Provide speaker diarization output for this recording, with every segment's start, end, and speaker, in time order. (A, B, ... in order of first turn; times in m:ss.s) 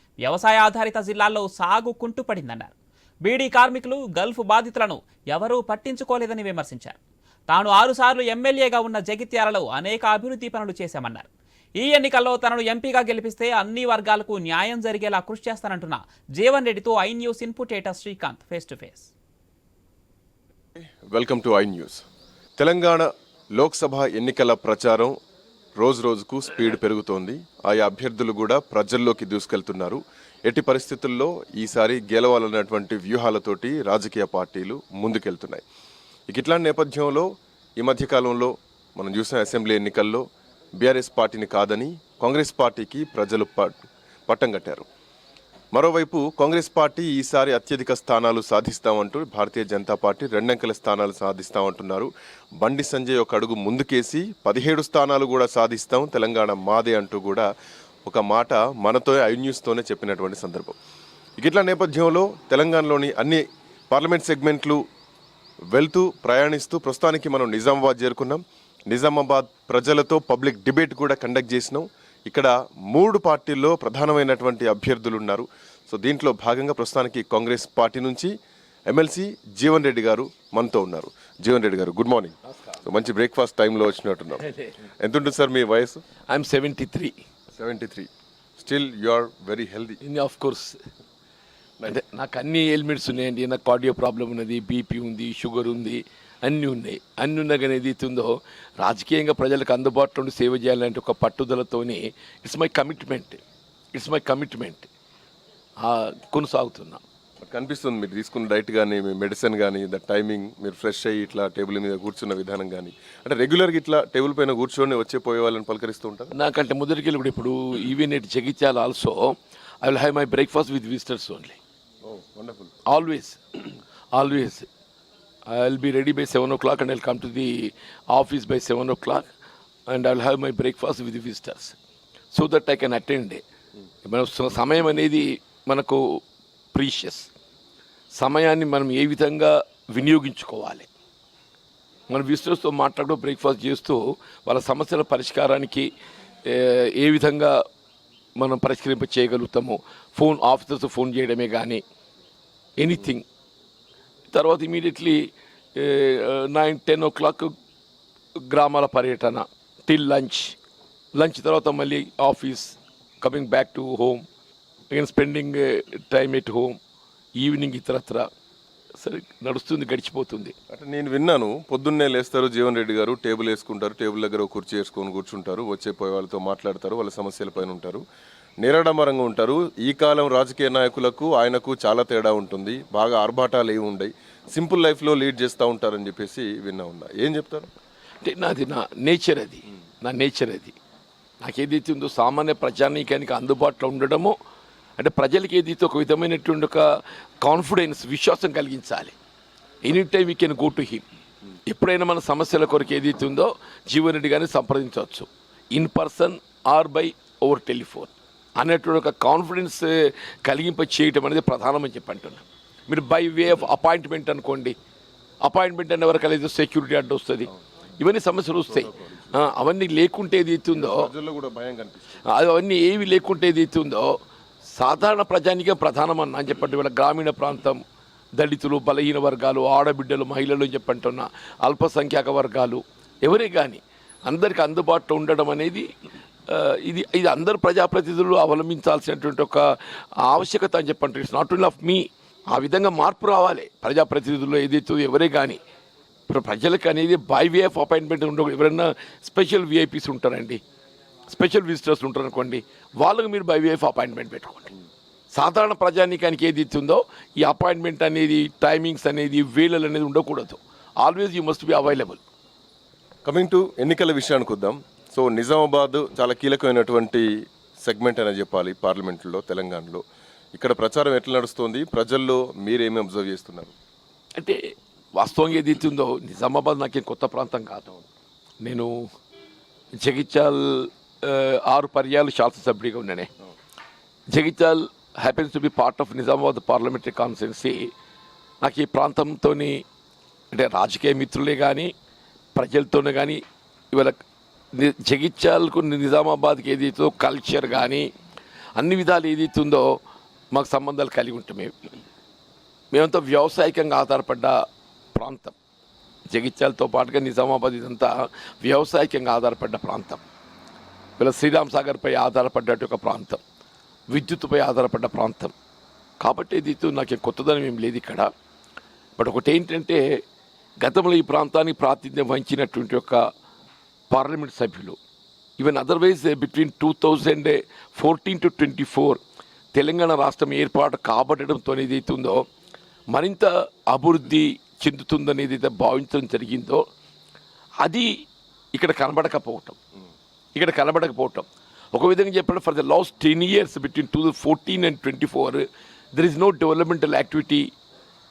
0:00.2-0:02.7 A
0:03.2-0:07.0 A
0:07.5-0:19.1 A
0:20.8-0:22.0 B
0:22.6-0:25.1 B
0:25.8-0:35.6 B
0:36.3-0:37.3 B
0:37.8-0:40.2 B
0:40.8-0:44.8 B
0:45.7-0:52.1 B
0:52.6-0:57.5 B
0:58.0-1:00.7 B
1:01.4-1:04.8 B
1:05.7-1:18.3 B
1:18.9-1:24.5 B
1:25.0-1:26.0 B
1:26.3-1:27.1 C
1:27.6-1:30.0 B
1:30.0-1:30.8 C
1:31.8-1:43.4 C
1:43.9-1:44.9 C
1:45.8-1:47.0 C
1:47.4-1:56.3 B
1:56.3-2:01.6 C
2:02.0-2:02.7 B
2:02.9-2:04.7 C
2:05.5-2:09.3 C
2:09.9-2:11.8 C
2:12.3-2:13.4 C
2:14.0-2:16.2 C
2:16.7-2:17.3 C
2:18.1-2:20.9 C
2:22.1-2:25.9 C
2:26.4-2:27.6 C
2:28.4-2:31.8 C
2:32.8-2:33.2 C
2:34.3-2:37.5 C
2:38.4-2:40.6 C
2:41.2-2:44.2 C
2:44.9-2:46.8 C
2:47.4-2:48.3 C
2:49.0-2:50.5 C
2:50.7-2:58.0 B
2:58.6-3:07.7 B
3:08.2-3:10.8 C
3:11.4-3:14.3 C
3:15.0-3:19.1 C
3:19.8-3:21.0 C
3:21.6-3:34.7 C
3:35.4-3:41.1 C
3:38.8-3:39.4 B
3:40.7-3:42.2 B
3:42.2-3:44.2 C
3:44.8-3:47.8 C
3:48.4-3:55.9 C
3:56.5-4:05.6 C
4:06.3-4:10.6 C
4:11.3-4:14.7 C
4:15.3-4:22.2 C
4:23.2-4:30.0 B
4:30.5-4:33.7 B
4:34.4-4:37.9 C
4:38.6-4:39.1 C
4:40.0-4:43.3 C
4:44.3-4:47.9 C
4:48.6-4:49.8 C
4:50.5-4:51.9 C
4:52.5-4:54.2 C
4:54.7-4:58.1 C
4:58.8-5:00.0 C
5:00.5-5:01.9 C
5:02.9-5:04.6 C
5:05.1-5:05.5 C
5:06.3-5:08.1 C
5:08.6-5:10.2 C
5:11.2-5:13.4 C
5:14.1-5:15.5 C
5:16.2-5:18.3 C
5:19.2-5:20.2 C
5:20.8-5:23.2 C
5:24.1-5:25.0 C
5:25.6-5:29.2 C
5:29.7-5:32.4 C
5:33.1-5:36.8 C
5:37.8-5:38.1 C
5:38.7-5:39.8 C
5:40.5-5:47.7 C